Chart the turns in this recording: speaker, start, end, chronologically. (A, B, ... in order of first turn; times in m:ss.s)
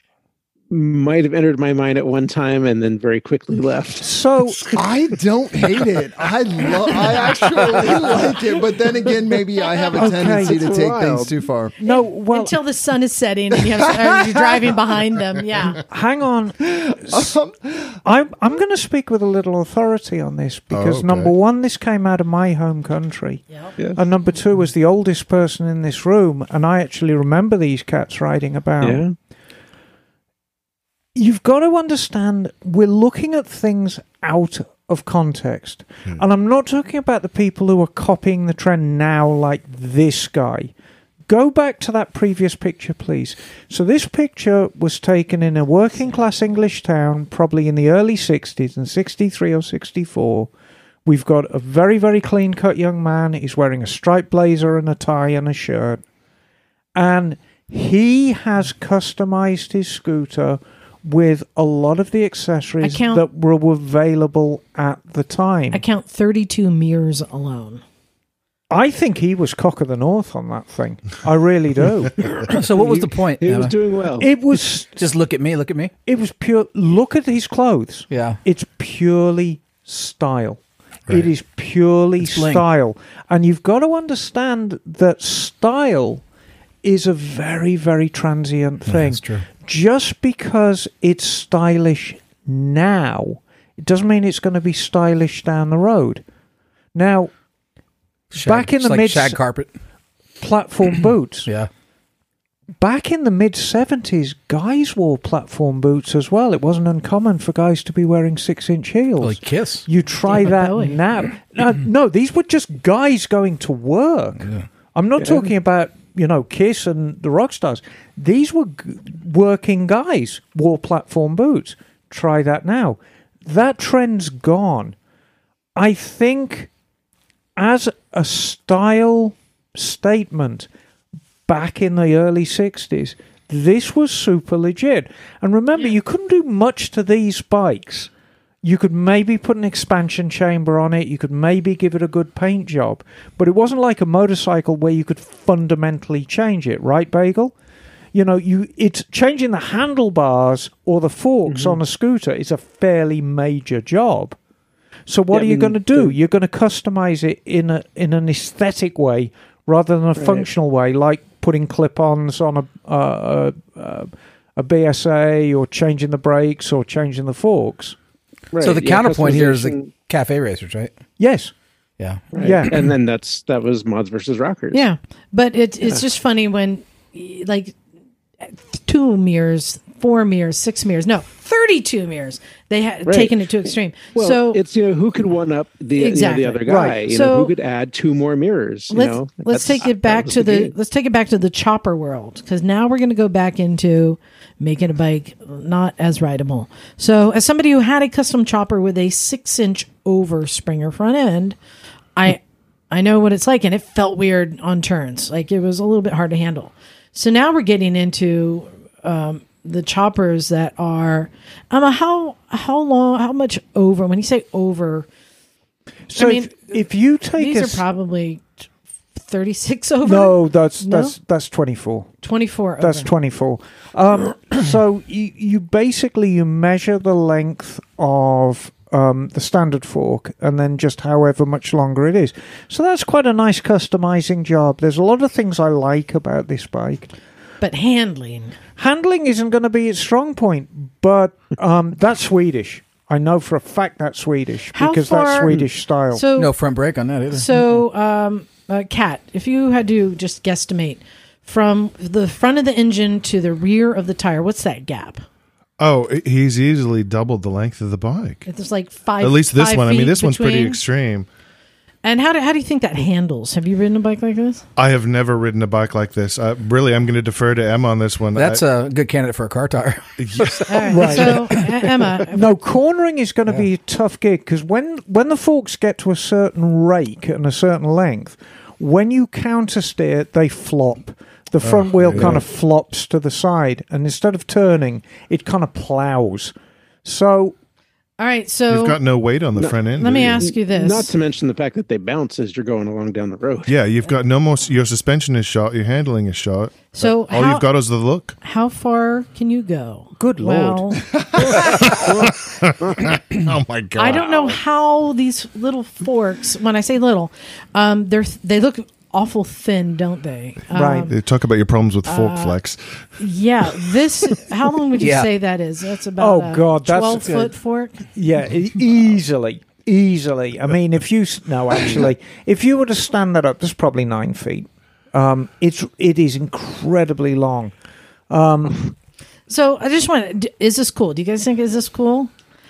0:00.7-0:04.1 A
0:04.0-0:04.7 B
0:04.7-0:11.8 C
0:06.7-0:08.3 A
0:09.9-0:11.4 A
0:09.9-0:10.6 B
0:11.8-0:15.8 D
0:11.8-0:12.6 B
0:15.8-0:17.3 B
0:16.7-0:18.0 C
0:18.0-0:29.0 B
0:20.7-0:21.3 E
0:23.5-0:23.8 D
0:28.8-0:29.1 A
0:31.1-0:40.7 B
0:41.2-0:50.5 B
0:51.0-0:56.0 B
0:56.9-1:05.8 B
1:02.8-1:03.2 D
1:05.7-1:07.8 D
1:08.7-1:12.3 B
1:12.3-1:13.8 F
1:12.6-1:14.3 A
1:14.2-1:15.0 B
1:15.0-1:15.9 F
1:16.0-1:26.2 B
1:18.1-1:18.4 F
1:22.2-1:22.6 F
1:26.8-1:36.2 B
1:28.9-1:29.4 F
1:36.9-1:37.3 B
1:38.3-1:39.4 B
1:38.3-1:39.7 F
1:40.4-1:41.5 B
1:42.8-2:05.0 B
1:49.2-1:49.8 F
1:50.2-1:51.0 D
1:55.2-1:55.5 A
2:05.8-2:06.7 B
2:07.6-2:10.7 B
2:11.4-2:18.1 B
2:18.6-2:27.5 B
2:28.1-2:34.4 B
2:31.5-2:31.8 A
2:35.1-2:48.0 B
2:35.3-2:36.1 A
2:40.2-2:40.4 A
2:48.5-2:49.9 A
2:48.6-2:50.9 F
2:51.2-2:51.5 B
2:52.0-2:52.3 F
2:52.3-2:54.8 A
2:52.4-2:52.8 B
2:54.7-2:57.8 D
2:58.4-3:04.6 D
3:03.0-3:03.4 A
3:04.2-3:10.7 A
3:06.0-3:07.5 D
3:06.6-3:07.0 B
3:08.9-3:21.6 D
3:22.2-3:35.1 D
3:36.1-3:37.8 B
3:36.1-3:36.8 D
3:37.4-3:38.5 D
3:39.1-3:41.1 D
3:40.0-3:42.1 B
3:42.2-3:43.1 D
3:42.8-3:57.1 B
3:57.6-3:58.6 D
3:58.8-4:06.2 B
4:04.7-4:05.6 D
4:06.1-4:06.5 D
4:06.4-4:07.6 F
4:07.3-4:15.2 D
4:15.8-4:18.5 E
4:18.5-4:20.8 D
4:19.2-4:21.3 E
4:22.0-4:24.6 D
4:24.8-4:28.6 E
4:28.3-4:31.8 F
4:30.2-4:31.0 E
4:30.7-4:32.5 D
4:30.9-4:31.6 B
4:32.2-4:46.5 B
4:41.6-4:42.4 E
4:47.0-4:47.5 B
4:48.2-4:49.0 D
4:48.7-4:50.5 E
4:49.9-4:51.1 D
4:50.4-4:53.7 A
4:53.7-4:58.4 E
4:56.9-4:57.7 D
4:58.4-5:01.0 D
5:00.2-5:01.0 B
5:01.4-5:04.6 E
5:01.5-5:02.3 A
5:03.9-5:11.1 D
5:10.7-5:11.1 B
5:11.1-5:13.0 E
5:12.0-5:12.6 D
5:13.2-5:18.0 D
5:15.0-5:15.3 F
5:16.2-5:17.5 B
5:18.1-5:27.7 B
5:28.3-5:28.9 B
5:29.5-5:32.3 D